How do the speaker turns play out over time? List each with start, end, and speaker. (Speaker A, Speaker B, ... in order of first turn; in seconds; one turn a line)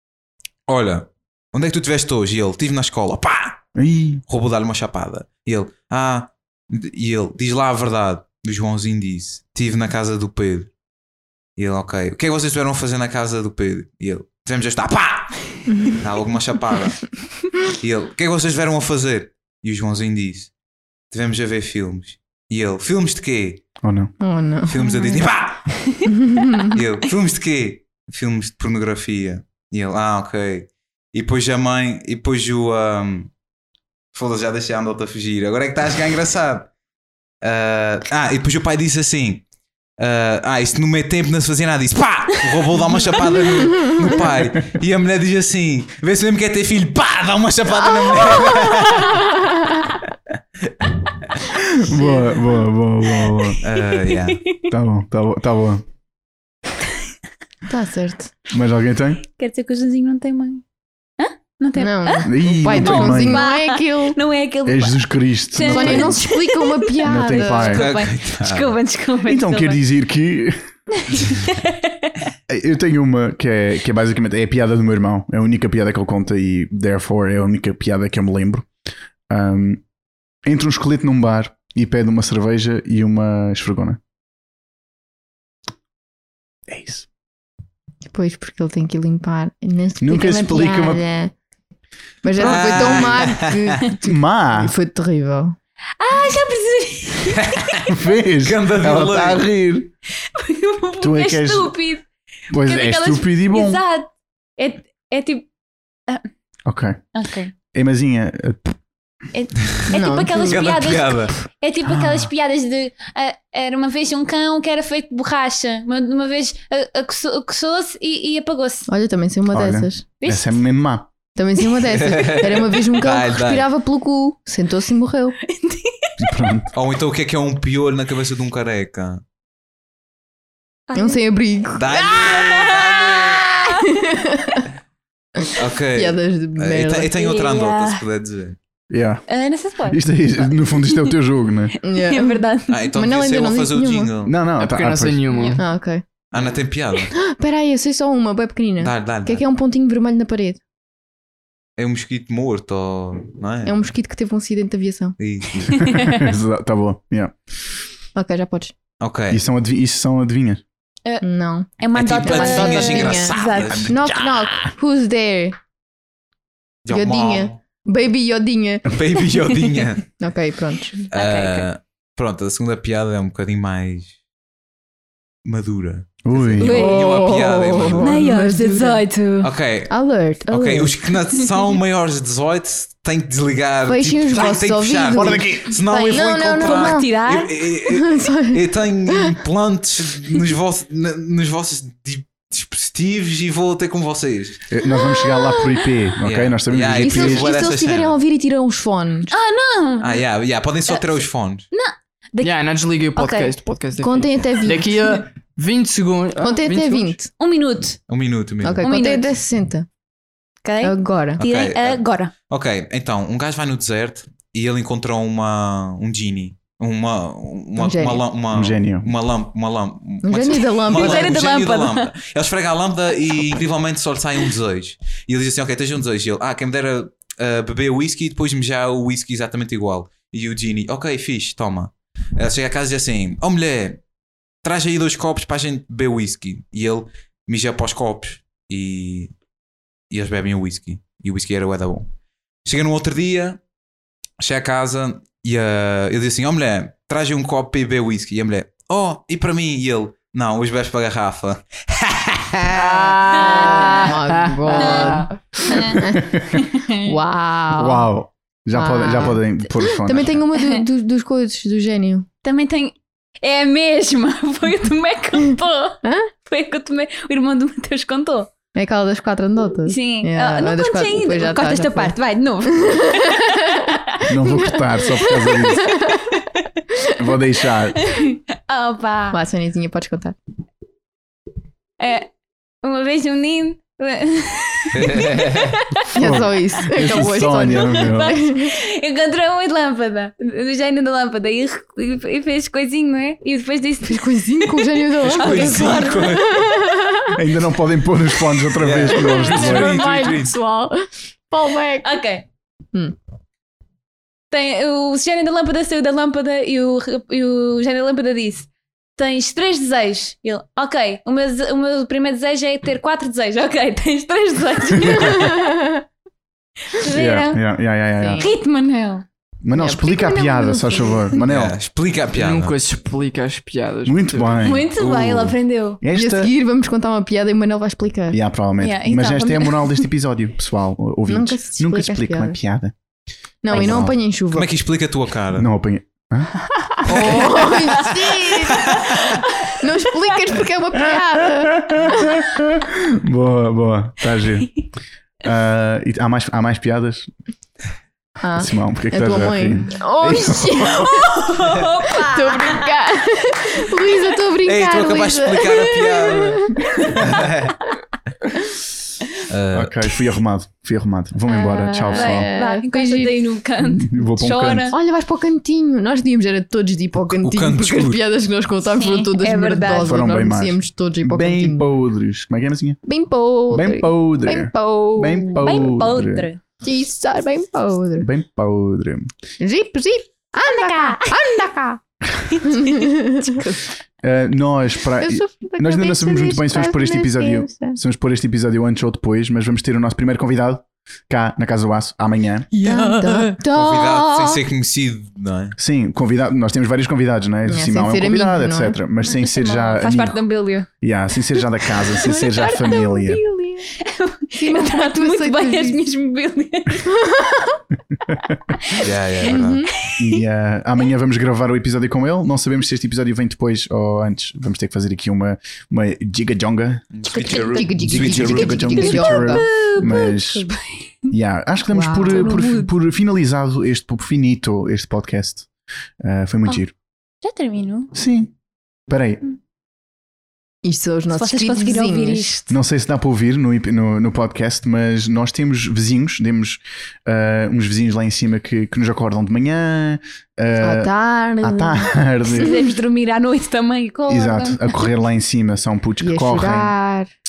Speaker A: 0.7-3.6
Speaker B: 3.8-4.2
Speaker A: 4.3-10.7
Speaker A: 11.6-20.5
Speaker C: 15.7-16.0
Speaker A: 21.1-23.6
Speaker B: 23.8-24.1
Speaker C: 24.2-24.8
Speaker A: 24.6-25.7
Speaker D: 24.8-25.2
Speaker C: 26.1-26.8
Speaker A: 26.6-33.3
Speaker A: 34.1-36.7
Speaker A: 37.4-39.4
Speaker A: 40.0-49.3
Speaker B: 44.3-44.7
Speaker C: 48.1-49.8
Speaker B: 51.5-53.6
Speaker C: 51.9-52.2
Speaker A: 53.6-54.4
Speaker D: 53.7-54.7
Speaker B: 54.7-55.8
Speaker C: 57.7-58.3
Speaker B: 58.5-59.2
Speaker D: 59.4-60.6
Speaker D: 61.2-69.8
Speaker C: 61.8-64.2
Speaker B: 62.2-63.4
Speaker B: 64.6-66.2
Speaker C: 65.6-67.8
Speaker B: 67.0-67.9
Speaker A: 67.7-68.7
Speaker B: 69.2-70.6
Speaker D: 71.1-72.1
Speaker B: 72.5-78.7
Speaker B: 79.3-79.8
Speaker B: 80.4-84.0
Speaker B: 86.7-87.1
Speaker C: 88.1-91.3
Speaker B: 90.0-91.0
Speaker C: 92.2-95.5
Speaker A: 92.4-93.8
Speaker B: 94.0-94.7
Speaker D: 96.0-98.0
Speaker A: 97.4-97.8
Speaker B: 97.9-99.9
Speaker A: 98.4-99.4
Speaker D: 100.2-105.5
Speaker B: 101.0-101.7
Speaker B: 102.5-103.8
Speaker B: 106.7-107.0
Speaker D: 107.1-107.5
Speaker B: 107.7-108.8
Speaker D: 109.3-118.9
Speaker C: 109.9-110.6
Speaker A: 110.5-111.3
Speaker B: 111.8-112.3
Speaker C: 118.9-120.0
Speaker B: 119.5-121.1
Speaker D: 120.2-120.6
Speaker C: 121.3-125.3
Speaker A: 121.9-123.7
Speaker D: 125.5-126.1
Speaker B: 126.2-126.7
Speaker A: 126.7-129.2
Speaker D: 130.9-131.2
Speaker C: 130.9-131.9
Speaker A: 131.8-133.4
Speaker D: 131.9-133.8
Speaker C: 133.7-134.7
Speaker C: 135.4-137.2
Speaker A: 135.6-138.6
Speaker D: 137.2-138.0
Speaker B: 138.9-139.2
Speaker D: 139.3-141.1
Speaker B: 139.8-141.8
Speaker C: 141.8-142.4
Speaker D: 141.9-142.9
Speaker A: 142.7-144.3
Speaker C: 142.9-144.1
Speaker B: 144.2-145.2
Speaker E: 144.6-145.6
Speaker D: 145.3-145.6
Speaker C: 145.6-146.0
Speaker A: 146.3-147.1
Speaker C: 147.1-150.6
Speaker A: 148.8-149.4
Speaker A: 151.8-153.8
Speaker C: 153.6-155.2
Speaker A: 155.2-155.9
Speaker B: 155.6-157.3
Speaker D: 155.8-156.3
Speaker C: 158.1-158.7
Speaker A: 159.0-159.4
Speaker B: 159.3-160.6
Speaker C: 161.2-165.6
Speaker D: 161.8-163.9
Speaker A: 161.9-164.6
Speaker A: 166.8-167.5
Speaker C: 166.9-168.9
Speaker A: 168.9-170.1
Speaker C: 170.2-170.9
Speaker D: 171.0-171.7
Speaker A: 171.1-174.1
Speaker A: 175.4-178.2
Speaker B: 176.2-176.8
Speaker D: 176.6-177.2
Speaker C: 176.6-179.0
Speaker D: 178.0-179.5
Speaker A: 179.4-179.9
Speaker C: 179.9-180.9
Speaker A: 180.5-194.7
Speaker C: 183.9-187.1
Speaker B: 185.1-185.7
Speaker D: 186.1-187.5
Speaker C: 187.8-189.3
Speaker B: 194.7-197.5
Speaker C: 194.9-195.7
Speaker A: 196.2-198.2
Speaker C: 197.0-199.3
Speaker D: 199.3-200.2
Speaker A: 200.0-201.7
Speaker D: 201.7-202.6
Speaker E: 202.4-207.2
Speaker D: 203.1-203.5
Speaker C: 204.0-204.9
Speaker C: 206.4-207.3
Speaker D: 207.4-208.0
Speaker A: 208.1-209.1
Speaker C: 208.6-209.9
Speaker D: 208.8-209.3
Speaker D: 210.6-212.3
Speaker C: 210.8-211.4
Speaker A: 211.4-234.0
Speaker C: 217.8-218.2
Speaker B: 218.5-219.1
Speaker C: 220.2-221.4
Speaker D: 220.9-222.1
Speaker A: 234.6-239.3
Speaker A: 240.1-242.1
Speaker A: 242.6-243.6
Speaker A: 244.4-253.2
Speaker E: 252.7-255.4
Speaker C: 253.3-256.3
Speaker D: 253.4-254.1
Speaker D: 254.8-257.1
Speaker B: 256.1-256.6
Speaker C: 257.0-258.1
Speaker B: 257.8-260.4
Speaker C: 258.7-262.3
Speaker D: 262.4-268.5
Speaker C: 266.0-266.3
Speaker C: 268.7-272.1
Speaker D: 269.9-274.0
Speaker C: 272.9-273.9
Speaker B: 274.3-275.9
Speaker C: 274.4-276.4
Speaker B: 277.1-278.0
Speaker D: 278.0-279.4
Speaker C: 279.3-280.4
Speaker D: 282.0-286.1
Speaker A: 284.9-285.8
Speaker C: 286.1-288.7
Speaker B: 286.1-288.3
Speaker D: 287.0-296.4
Speaker C: 294.0-297.4
Speaker A: 295.2-296.6
Speaker B: 297.3-300.0
Speaker A: 298.8-300.5
Speaker C: 299.1-302.2
Speaker D: 299.6-300.4
Speaker D: 302.0-302.4
Speaker D: 304.5-315.6
Speaker C: 315.1-316.0
Speaker D: 316.9-317.6
Speaker B: 317.1-318.5
Speaker C: 318.2-318.5
Speaker D: 318.4-319.2
Speaker B: 319.6-321.7
Speaker C: 319.7-321.2
Speaker A: 321.4-322.8
Speaker E: 322.3-324.7
Speaker B: 324.0-324.9
Speaker D: 324.6-326.0
Speaker A: 324.9-325.6
Speaker B: 326.0-326.5
Speaker C: 326.1-328.4
Speaker B: 328.3-332.9
Speaker D: 328.8-330.1
Speaker C: 331.3-332.6
Speaker C: 333.6-334.7
Speaker D: 333.7-334.0
Speaker B: 333.7-334.1
Speaker A: 334.5-335.7
Speaker B: 335.5-337.3
Speaker C: 337.0-339.2
Speaker A: 338.6-339.4
Speaker C: 339.8-342.4
Speaker B: 341.2-344.9
Speaker B: 345.4-347.3
Speaker C: 348.4-357.0
Speaker B: 348.6-350.8
Speaker D: 351.2-352.9
Speaker A: 354.6-357.9
Speaker D: 356.8-357.2
Speaker A: 359.5-360.0
Speaker B: 359.7-362.5
Speaker C: 361.5-363.4
Speaker D: 362.0-364.9
Speaker B: 363.8-364.9
Speaker C: 364.9-371.9
Speaker A: 367.2-368.2
Speaker D: 369.0-370.2
Speaker B: 370.0-373.0
Speaker C: 373.1-375.9
Speaker B: 373.7-376.5
Speaker D: 375.6-376.6
Speaker C: 376.8-378.3
Speaker B: 378.2-379.3
Speaker C: 379.6-382.0
Speaker D: 380.6-381.4
Speaker D: 382.5-383.8
Speaker C: 382.7-383.6
Speaker B: 384.2-392.7
Speaker C: 385.2-388.0
Speaker D: 392.7-393.6
Speaker C: 392.8-394.6
Speaker A: 393.6-395.8
Speaker B: 395.8-400.4
Speaker C: 397.7-399.0
Speaker D: 399.4-400.9
Speaker B: 401.0-403.4
Speaker C: 402.2-403.9
Speaker D: 402.2-402.5
Speaker D: 403.9-407.2
Speaker C: 404.6-406.0
Speaker C: 407.1-407.8
Speaker A: 408.9-409.9
Speaker C: 409.4-410.1
Speaker B: 410.2-417.1
Speaker A: 417.1-419.0
Speaker C: 417.3-419.7
Speaker D: 417.3-418.0
Speaker B: 418.0-420.7
Speaker D: 418.8-421.3
Speaker B: 421.3-425.7
Speaker C: 421.9-422.6
Speaker D: 422.3-422.9
Speaker B: 426.2-426.9
Speaker D: 427.4-428.1
Speaker B: 428.1-428.5
Speaker B: 429.1-429.4
Speaker C: 430.8-432.5
Speaker D: 431.3-432.8
Speaker B: 432.7-442.8
Speaker C: 440.8-442.2
Speaker D: 442.5-445.0
Speaker B: 444.3-446.9
Speaker C: 446.2-447.3